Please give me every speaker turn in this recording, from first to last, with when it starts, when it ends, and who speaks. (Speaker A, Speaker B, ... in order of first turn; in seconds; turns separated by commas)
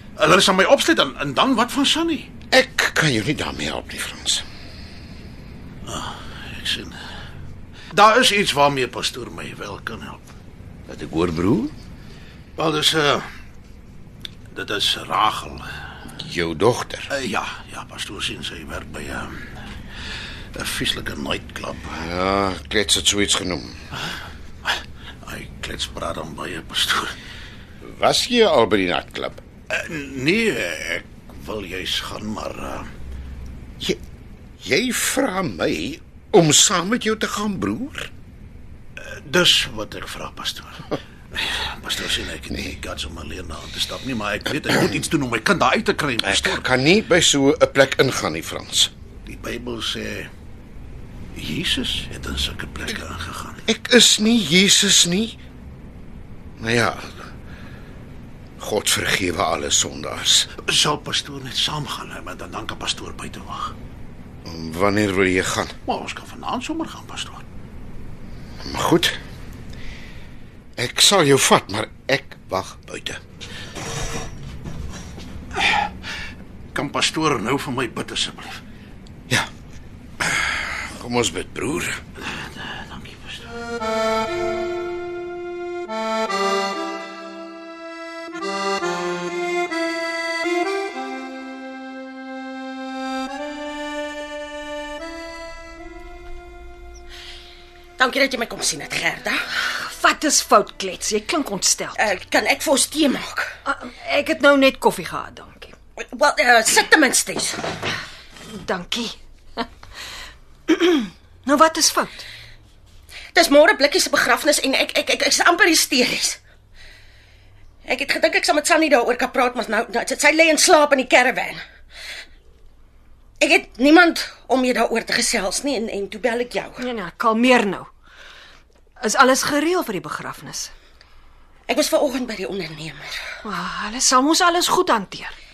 Speaker A: 0.2-2.3, Speaker B: 2.5-4.4, Speaker A: 5.8-7.0, Speaker A: 7.9-10.2, Speaker B: 10.9-11.7, Speaker A: 12.6-13.3, Speaker A: 14.5-15.7, Speaker B: 16.2-17.1, Speaker A: 17.1-19.3, Speaker A: 20.5-21.9, Speaker B: 21.9-23.8, Speaker A: 24.6-27.1, Speaker B: 27.8-29.4, Speaker A: 29.7-32.9, Speaker B: 34.6-38.1, Speaker A: 39.0-46.6, Speaker B: 42.5-42.8, Speaker B: 46.2-48.9, Speaker A: 49.2-50.3, Speaker A: 51.3-53.6, Speaker B: 53.6-55.4, Speaker B: 56.6-57.3, Speaker B: 58.6-60.5, Speaker A: 60.6-63.7, Speaker B: 64.4-65.7, Speaker A: 65.8-67.4, Speaker B: 68.6-69.2, Speaker B: 70.8-73.2, Speaker A: 76.7-78.6, Speaker B: 80.2-82.0, Speaker A: 82.2-83.5, Speaker C: 98.0-99.4, Speaker D: 99.7-102.0, Speaker C: 102.0-103.6, Speaker D: 103.7-105.7, Speaker C: 106.0-107.6, Speaker D: 108.5-109.6, Speaker D: 110.7-112.3, Speaker C: 113.3-116.4, Speaker C: 117.8-121.6, Speaker C: 123.4-126.8, Speaker D: 126.8-127.9, Speaker D: 129.0-130.7, Speaker C: 131.7-133.2, Speaker D: 133.4-135.3